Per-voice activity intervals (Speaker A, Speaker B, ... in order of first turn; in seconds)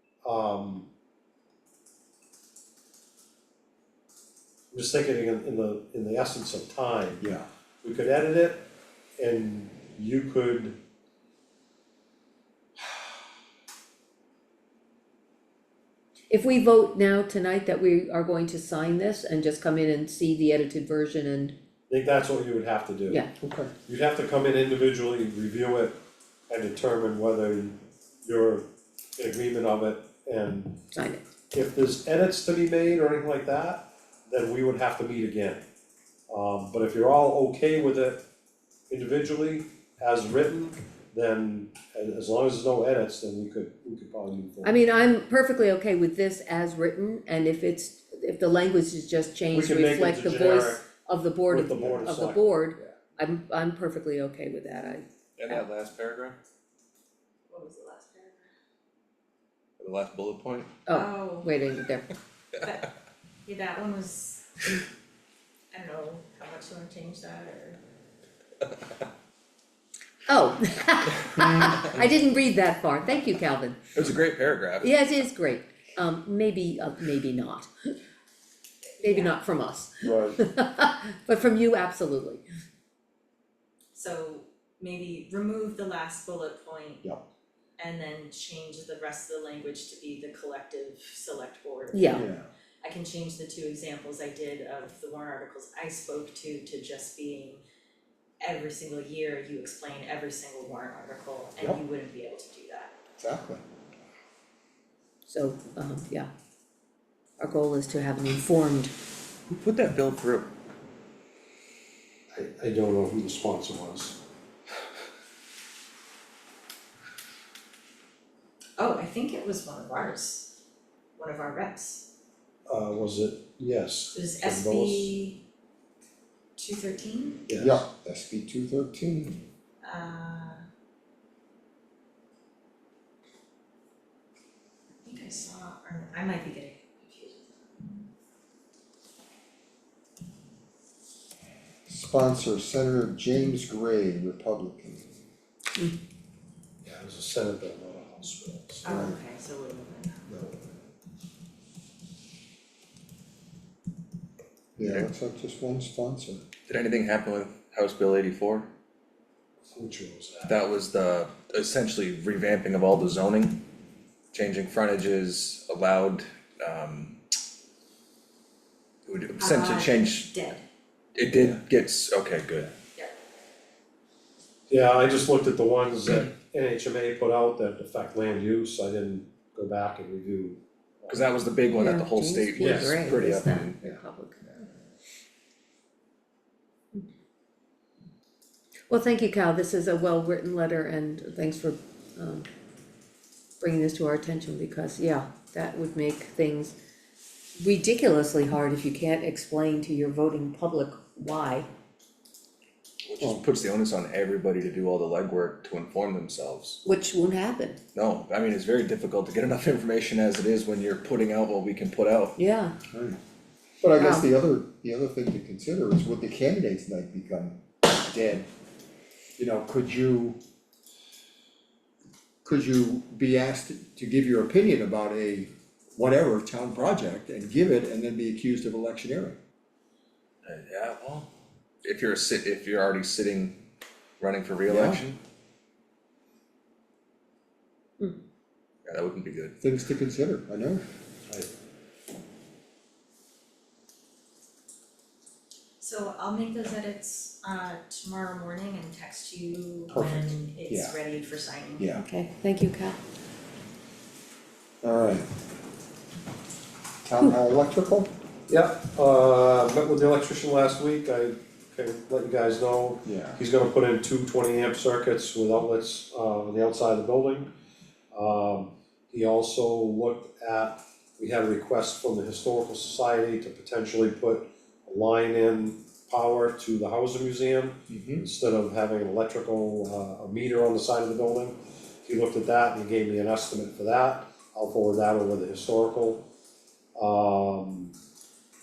Speaker A: 0.2-0.9, 4.7-7.3, 7.8-8.7, 9.2-10.8, 21.9-23.2, 23.9-25.9, 26.5-30.8, 31.5-35.6, 36.3-38.2, 38.9-44.8, 49.5-50.9, 51.5-52.5, 112.3-114.2, 122.7-125.2, 127.5-127.8, 146.8-149.1, 159.7-160.6, 174.7-181.3, 182.6-183.0, 241.3-241.5, 258.5-267.5, 268.1-286.3, 287.0-287.9
Speaker B: 7.2-7.5, 23.4-23.7, 92.0-92.5, 103.2-103.6, 127.5-129.4, 141.9-145.1, 148.9-149.2, 154.8-156.4, 212.9-213.2, 213.8-218.5, 219.4-220.4, 222.4-229.4, 234.7-235.0, 239.6-240.8, 249.9-251.0, 251.8-252.0, 254.8-255.3, 257.0-258.1, 263.1-263.4, 277.9-278.3
Speaker C: 16.3-21.5, 30.9-31.2, 44.6-55.6, 60.9-62.1, 70.3-74.0, 74.8-77.7, 79.0-82.4, 91.9-92.2, 105.3-106.3, 107.4-108.9, 181.8-184.5, 188.9-192.5, 193.6-196.8, 197.6-201.7, 206.8-207.8, 212.4-212.8, 214.0-214.3, 251.9-253.0
Speaker D: 55.4-56.4, 59.8-60.8, 74.0-74.9, 109.5-110.5, 154.8-155.1, 156.7-158.7, 160.5-163.6, 164.3-167.2, 169.1-170.3, 171.2-172.8, 181.1-183.8, 203.1-206.8, 207.9-212.3, 230.4-231.3, 231.8-233.6, 234.2-235.2, 238.9-239.6
Speaker E: 57.5-58.5, 60.9-61.5, 62.6-62.9, 63.5-64.7, 65.7-67.8, 79.0-79.4, 83.9-87.0, 87.8-92.2, 92.8-97.6, 98.4-103.0, 118.8-120.5, 121.2-122.0, 124.1-125.4, 126.6-127.5, 129.8-130.6, 135.0-138.1, 148.8-150.3, 169.4-170.6, 245.8-251.9